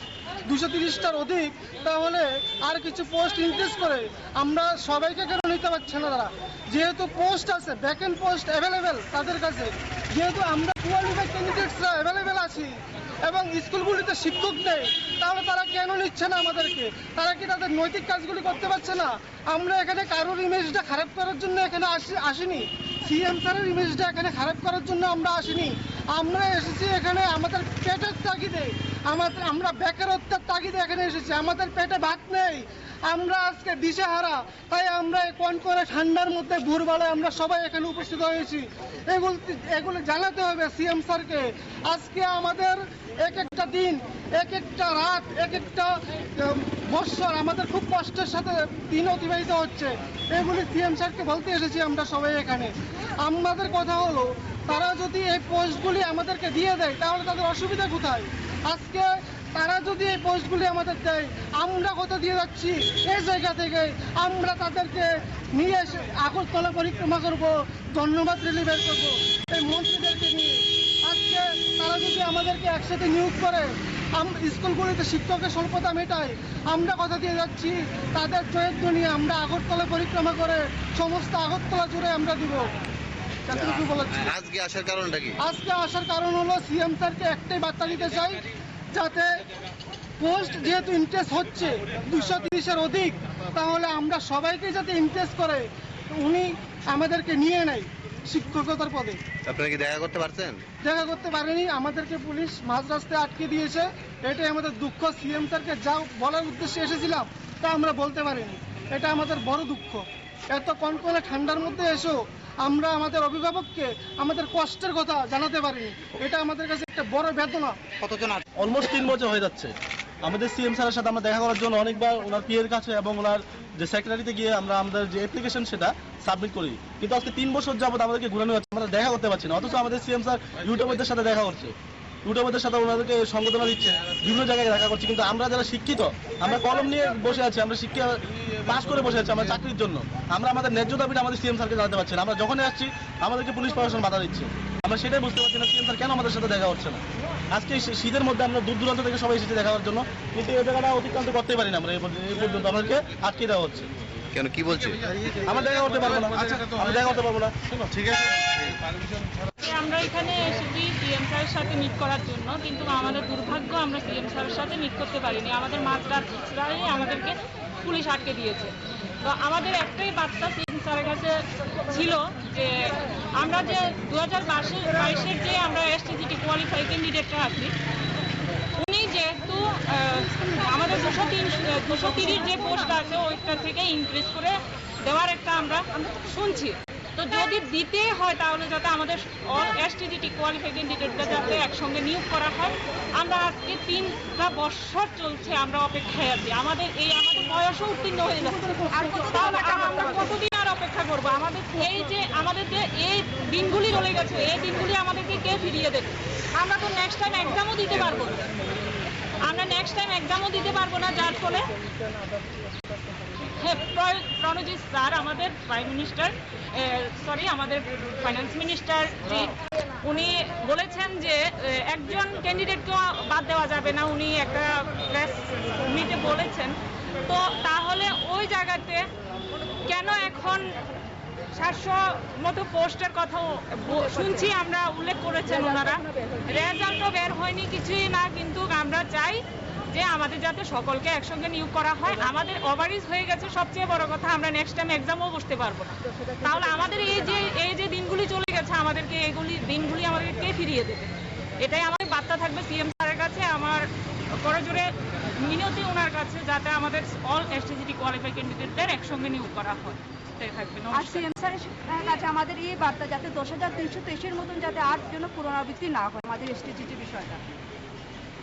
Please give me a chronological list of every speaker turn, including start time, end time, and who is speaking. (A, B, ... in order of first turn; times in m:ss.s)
0:00.4-1:22.7 A
1:23.5-1:24.3 A
1:23.5-1:25.4 B
1:25.4-1:29.3 A
1:30.2-1:39.2 A
1:39.5-1:40.6 B
1:40.8-1:57.8 A
1:58.6-1:59.7 C
2:00.2-2:11.7 C
2:12.2-2:27.0 C
2:27.5-2:33.9 C
2:34.3-2:35.5 B
2:35.4-2:37.5 C
2:37.8-2:38.5 B
2:39.6-2:57.7 D
2:58.8-3:28.5 D
3:18.3-3:20.3 A
3:19.4-3:19.7 E
3:29.4-3:31.7 D
3:33.4-3:46.7 D
3:47.2-3:49.0 D
3:49.8-3:50.7 D
3:51.6-4:13.8 D
3:53.9-3:54.4 E
3:55.6-3:56.4 E
4:14.4-4:21.3 D
4:20.9-4:27.4 E